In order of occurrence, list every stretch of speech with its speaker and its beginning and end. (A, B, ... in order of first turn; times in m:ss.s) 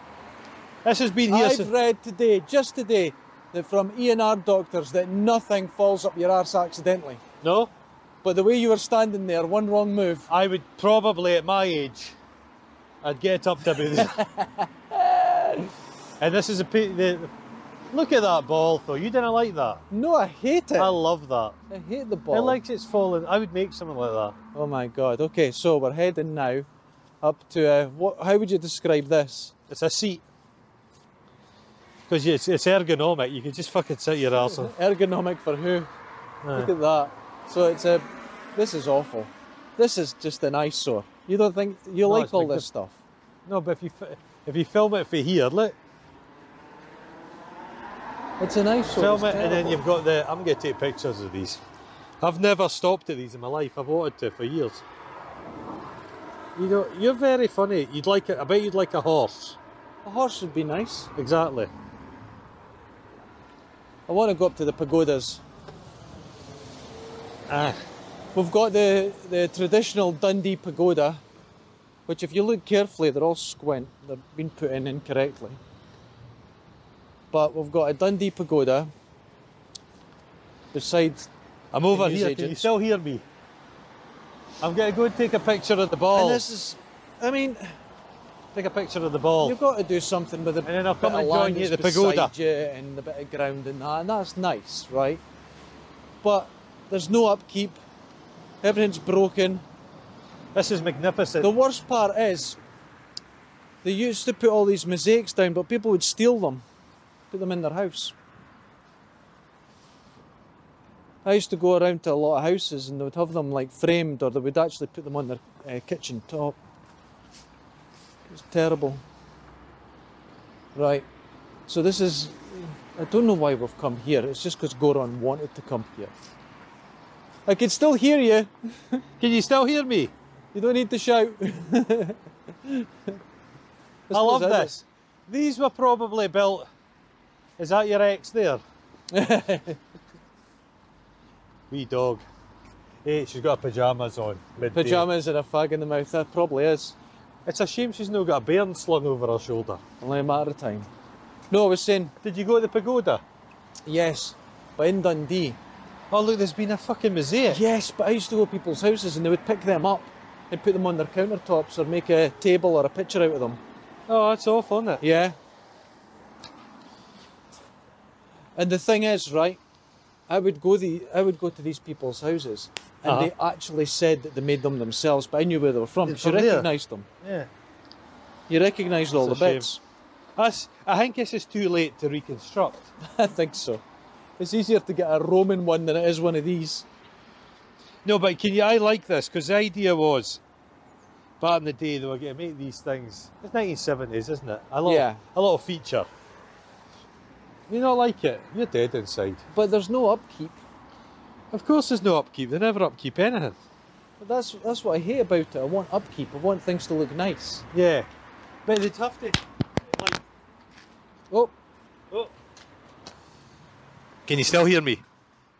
0:00.8-0:01.7 A
0:01.3-0:07.2 B
0:07.4-0:07.7 A
0:08.2-0:10.3 B
0:10.3-0:12.2 A
0:13.0-0:14.2 A
0:13.9-0:15.7 B
0:16.2-0:17.3 A
0:17.9-0:19.8 A
0:19.9-0:21.0 B
0:20.8-0:21.6 A
0:21.7-0:22.6 B
0:22.3-0:24.4 A
0:24.6-0:26.7 B
0:27.2-0:29.5 B
0:29.7-0:30.2 A
0:32.1-0:34.7 A
0:34.4-0:35.9 B
0:36.4-0:36.7 A
0:36.5-0:43.0 B
0:42.0-0:42.7 A
0:43.5-0:45.8 A
0:48.4-0:49.8 B
0:49.0-0:51.6 A
0:52.2-0:54.8 A
0:56.6-0:59.6 A
1:00.0-1:01.1 B
1:01.2-1:01.7 A
1:04.1-1:05.4 B
1:07.5-1:07.8 A
1:08.4-1:11.2 B
1:12.1-1:15.6 B
1:17.3-1:18.9 B
1:20.7-1:21.3 B
1:21.7-1:23.2 A
1:21.9-1:22.7 B
1:24.6-1:26.4 A
1:26.1-1:27.8 B
1:28.5-1:29.6 A
1:29.4-1:35.2 B
1:30.6-1:32.3 A
1:36.2-1:37.8 B
1:38.6-1:39.6 B
1:40.5-1:41.5 A
1:41.4-1:42.6 B
1:43.8-1:46.6 B
1:47.3-1:48.1 B
1:51.2-1:56.6 B
1:58.3-1:59.0 B
2:00.8-2:01.1 B
2:01.7-2:06.1 B
2:07.5-2:09.0 B
2:09.2-2:10.1 A
2:10.5-2:13.2 B
2:14.1-2:14.8 B
2:14.1-2:16.7 A
2:17.6-2:18.6 A
2:19.1-2:19.8 B
2:21.7-2:22.2 A
2:23.0-2:25.1 A
2:24.7-2:27.0 B
2:27.5-2:29.8 A
2:30.0-2:30.9 B
2:31.5-2:32.2 B
2:32.2-2:33.2 A
2:33.9-2:35.6 B
2:36.1-2:37.6 A
2:37.5-2:43.6 B
2:44.1-2:45.0 A
2:45.0-2:45.4 B
2:48.6-2:49.6 B
2:50.3-2:57.1 B
2:53.0-2:53.3 A
2:56.1-2:56.7 A
2:57.2-2:57.5 A
2:58.5-2:59.8 B
2:59.2-2:59.7 A
3:00.4-3:02.9 A
3:03.0-3:03.8 B
3:04.4-3:06.9 B
3:08.0-3:10.4 A
3:11.4-3:16.1 A
3:14.8-3:15.2 B
3:17.7-3:19.4 A
3:19.5-3:20.6 B
3:21.5-3:23.6 A
3:24.2-3:27.7 B
3:27.7-3:28.1 A
3:28.7-3:30.2 A
3:34.3-3:35.0 A